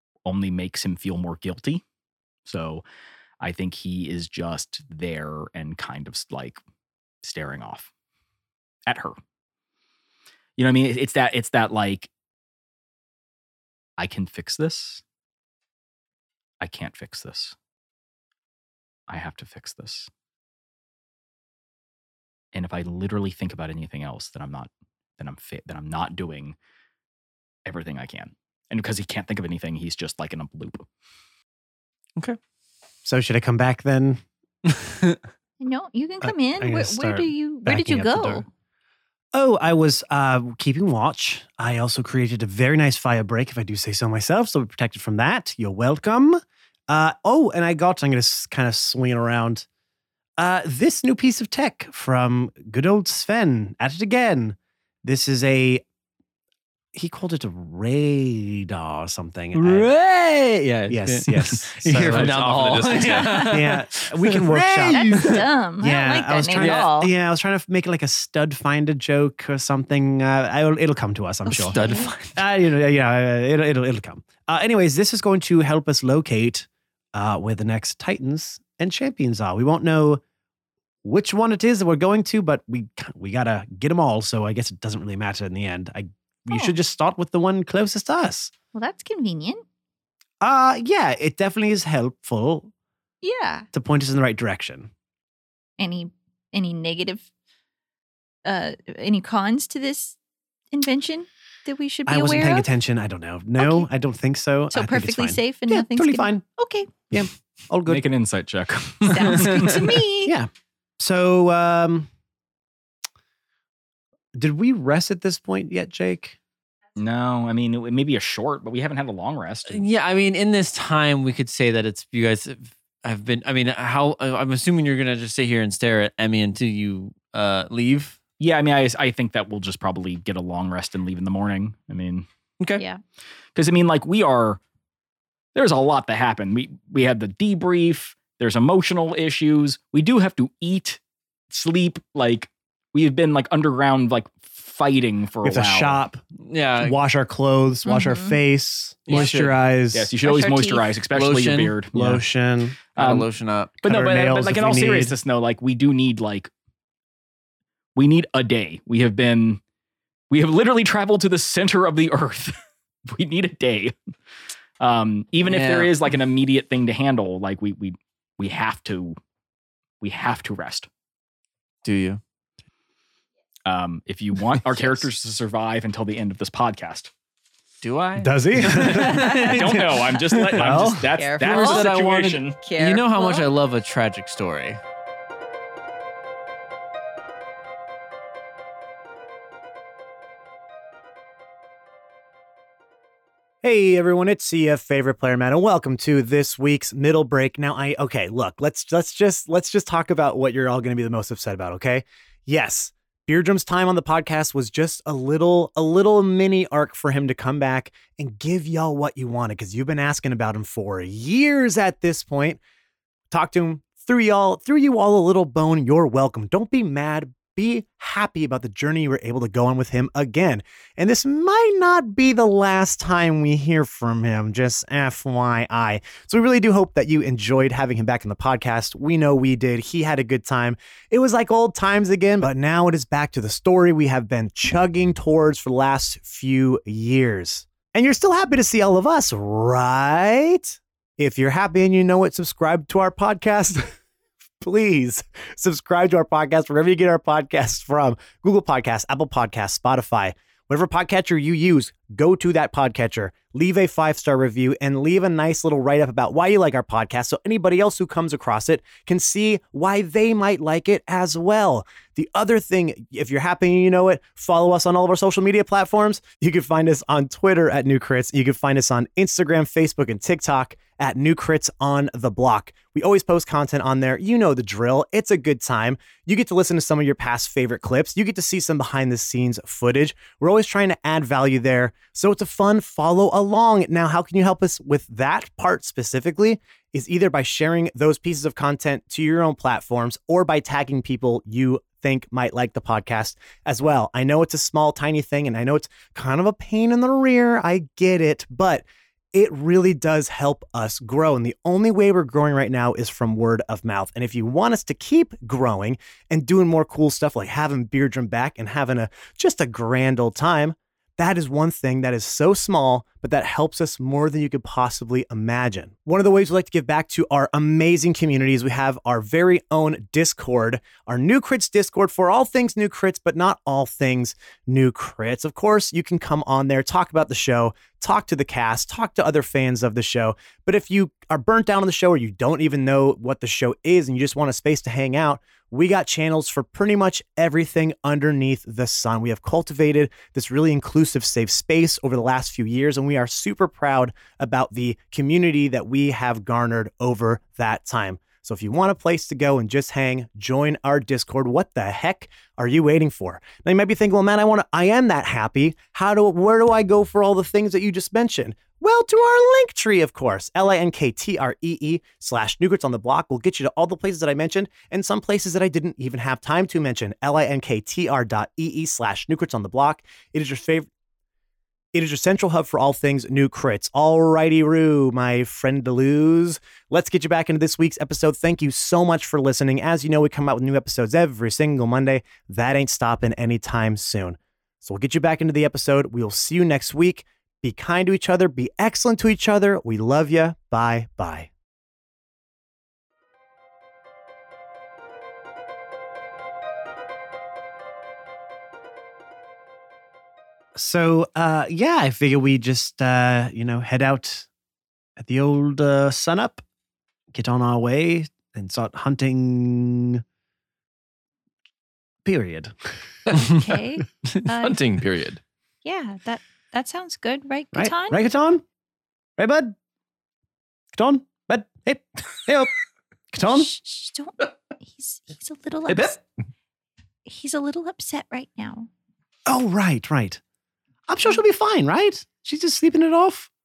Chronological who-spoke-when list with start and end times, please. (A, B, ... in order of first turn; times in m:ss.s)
0:00.3-0:01.8 A
0:02.4-0:02.8 A
0:03.4-0:06.6 A
0:07.2-0:07.9 A
0:08.9-0:09.2 A
0:10.6-0:12.1 A
0:14.0-0:15.0 A
0:16.6-0:17.6 A
0:19.1-0:20.1 A
0:22.5-0:26.6 A
0:27.6-0:30.9 A
0:33.0-0:34.2 B
0:34.7-0:35.2 C
0:35.6-0:38.5 D
0:36.2-0:38.4 B
0:39.3-0:49.7 B
0:50.4-0:55.8 B
0:56.9-0:59.9 B
0:59.5-1:05.5 C
1:00.9-1:02.6 B
1:01.9-1:03.5 E
1:02.9-1:03.6 D
1:03.3-1:11.8 B
1:04.9-1:07.1 D
1:06.5-1:06.9 C
1:11.5-1:12.1 D
1:11.6-1:12.4 C
1:12.3-1:20.2 B
1:21.0-1:28.5 B
1:28.7-1:29.6 D
1:30.4-1:32.7 B
1:33.2-1:33.7 D
1:33.7-1:34.9 B
1:35.8-1:37.3 D
1:38.4-1:40.2 D
1:40.7-1:42.7 D
1:42.1-1:46.4 B
1:43.6-1:43.9 D
1:44.7-1:46.9 D
1:47.1-1:48.0 B
1:47.9-1:49.9 A
1:49.1-1:50.4 D
1:49.3-1:49.6 C
1:50.2-1:52.1 B
1:54.4-1:56.4 B
1:57.0-1:59.8 A
1:59.7-2:08.2 C
2:08.4-2:12.3 A
2:13.6-2:14.6 A
2:15.6-2:26.0 A
2:25.4-2:26.2 B
2:26.5-2:27.0 C
2:26.8-2:30.1 B
2:27.8-2:28.4 D
2:29.1-2:29.6 C
2:29.9-2:32.2 A
2:30.2-2:30.9 D
2:31.1-2:31.8 C
2:31.9-2:32.8 B
2:33.0-2:33.3 A
2:33.0-2:33.7 C
2:33.8-2:36.5 A
2:33.8-2:35.1 B
2:38.0-2:39.6 A
2:40.3-2:42.6 A
2:43.1-2:44.0 A
2:44.8-2:49.2 A
2:45.4-2:46.0 C
2:50.0-2:50.9 A
2:51.8-2:52.2 C
2:53.7-2:57.1 A
2:57.8-3:00.3 C
2:58.2-3:01.1 B
2:59.0-2:59.8 D
2:59.5-3:02.6 A
3:01.2-3:01.9 D
3:01.4-3:04.8 C
3:02.6-3:03.5 D
3:13.6-3:32.6 B
3:33.3-4:03.9 B
4:04.6-6:10.9 B
6:11.9-6:31.5 B
6:40.8-6:44.5 B
6:45.2-6:46.6 B
6:47.3-6:50.2 B
6:52.2-6:52.9 B
6:53.4-6:54.9 D
6:54.4-6:55.4 E
6:55.8-6:58.2 D
6:57.7-6:58.6 B
6:59.4-6:59.8 B
7:00.9-7:02.7 B
7:03.3-7:03.7 B
7:03.5-7:06.2 D
7:07.2-7:08.9 D
7:09.5-7:10.4 B
7:11.1-7:13.5 B